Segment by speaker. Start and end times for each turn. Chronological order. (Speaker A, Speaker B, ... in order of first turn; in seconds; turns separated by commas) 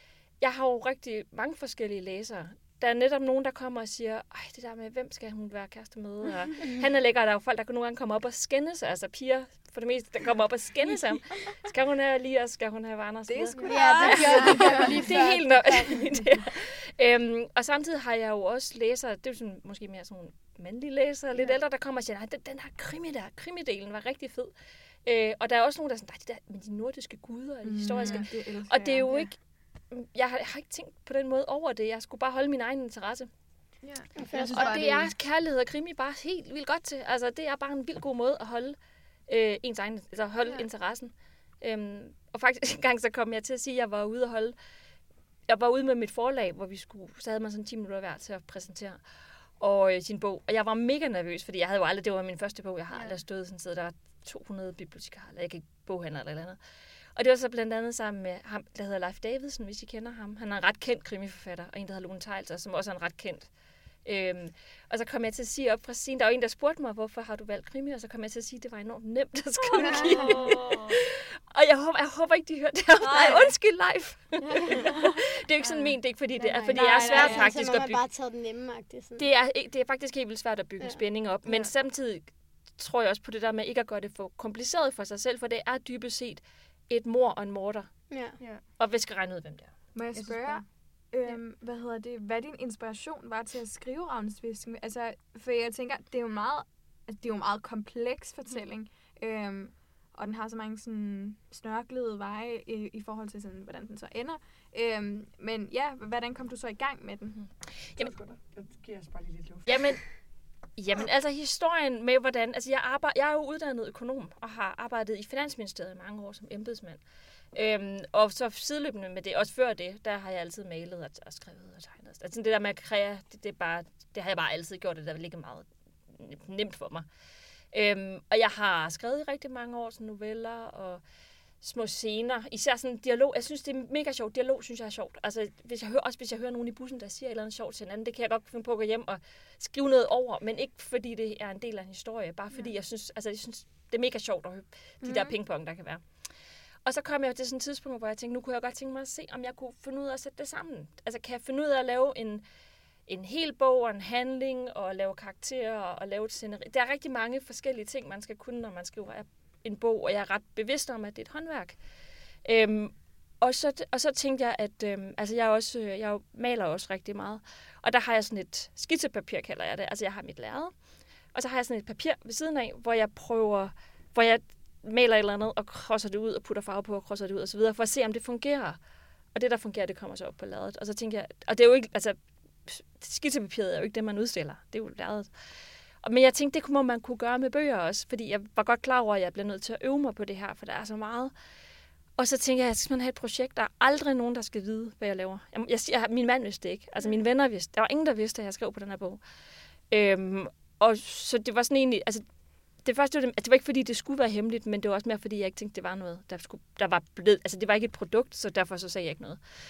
Speaker A: 0.4-24.5, Speaker B: 13.3-15.0, Speaker C: 13.6-15.0, Speaker D: 13.7-16.1, Speaker A: 25.0-33.3, Speaker B: 27.6-29.1, Speaker C: 33.8-35.1, Speaker D: 34.1-34.9, Speaker A: 34.5-44.5, Speaker A: 45.5-49.0, Speaker A: 49.6-56.6, Speaker C: 52.9-53.2, Speaker A: 57.1-63.5, Speaker A: 64.0-78.1, Speaker B: 69.8-70.4, Speaker C: 69.8-70.5, Speaker B: 73.0-73.5, Speaker C: 74.4-74.9, Speaker C: 75.6-77.3, Speaker B: 76.7-77.5, Speaker D: 77.1-79.2, Speaker A: 79.2-88.2, Speaker D: 88.1-88.4, Speaker A: 88.8-89.7, Speaker B: 89.9-107.4, Speaker C: 90.1-90.7, Speaker A: 107.4-108.1, Speaker E: 108.0-109.9, Speaker A: 109.7-110.2, Speaker A: 110.7-117.0, Speaker A: 117.5-127.0, Speaker A: 127.7-131.0, Speaker A: 131.6-146.0, Speaker B: 145.0-145.3, Speaker A: 146.8-152.4, Speaker A: 153.1-161.8, Speaker A: 162.4-170.8, Speaker A: 171.3-178.8, Speaker A: 179.3-185.3, Speaker A: 186.0-191.3, Speaker A: 192.2-199.2, Speaker A: 199.9-202.2, Speaker A: 202.8-209.4